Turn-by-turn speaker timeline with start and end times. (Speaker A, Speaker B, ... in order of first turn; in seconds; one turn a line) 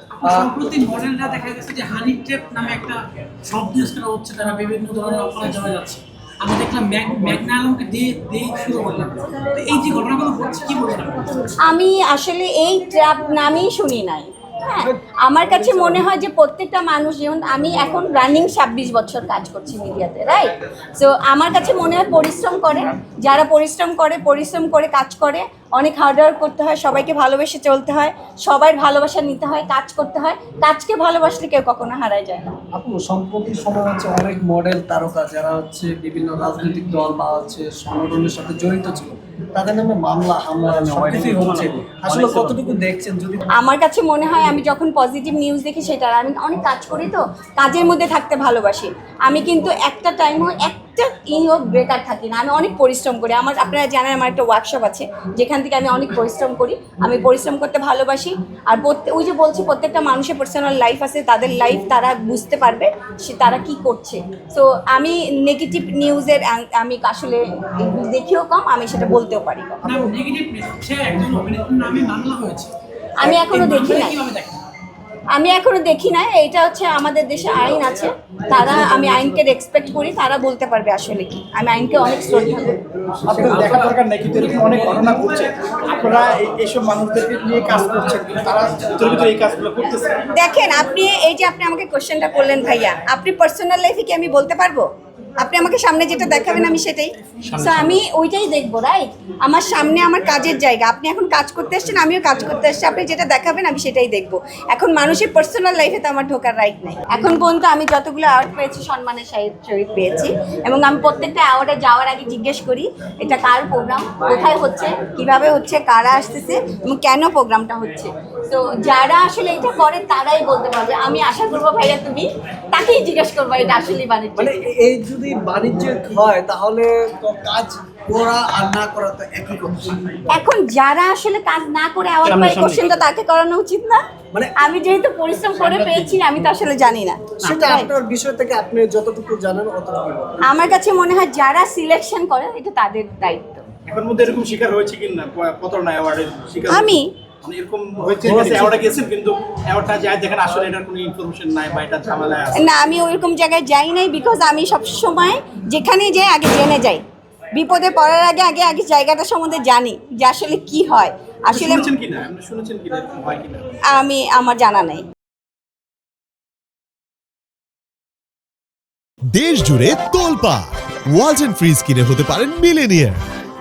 Speaker A: 0.1-11.5
Speaker B: 0.2-0.5
Speaker C: 11.6-32.5
Speaker B: 32.7-43.4
Speaker D: 41.2-42.5
Speaker C: 43.5-69.9
Speaker A: 69.8-74.6
Speaker C: 73.2-74.2
Speaker C: 75.3-82.8
Speaker D: 83.3-90.3
Speaker C: 90.3-94.8
Speaker C: 95.4-124.7
Speaker A: 97.5-97.9
Speaker B: 124.4-130.2
Speaker C: 130.3-134.0
Speaker D: 132.2-133.0
Speaker B: 134.3-134.6
Speaker C: 134.6-137.9
Speaker B: 137.4-140.5
Speaker C: 140.4-143.7
Speaker D: 143.8-152.7
Speaker C: 146.7-147.1
Speaker B: 148.1-148.8
Speaker C: 152.5-161.9
Speaker D: 161.5-163.7
Speaker C: 163.9-165.0
Speaker E: 169.3-173.2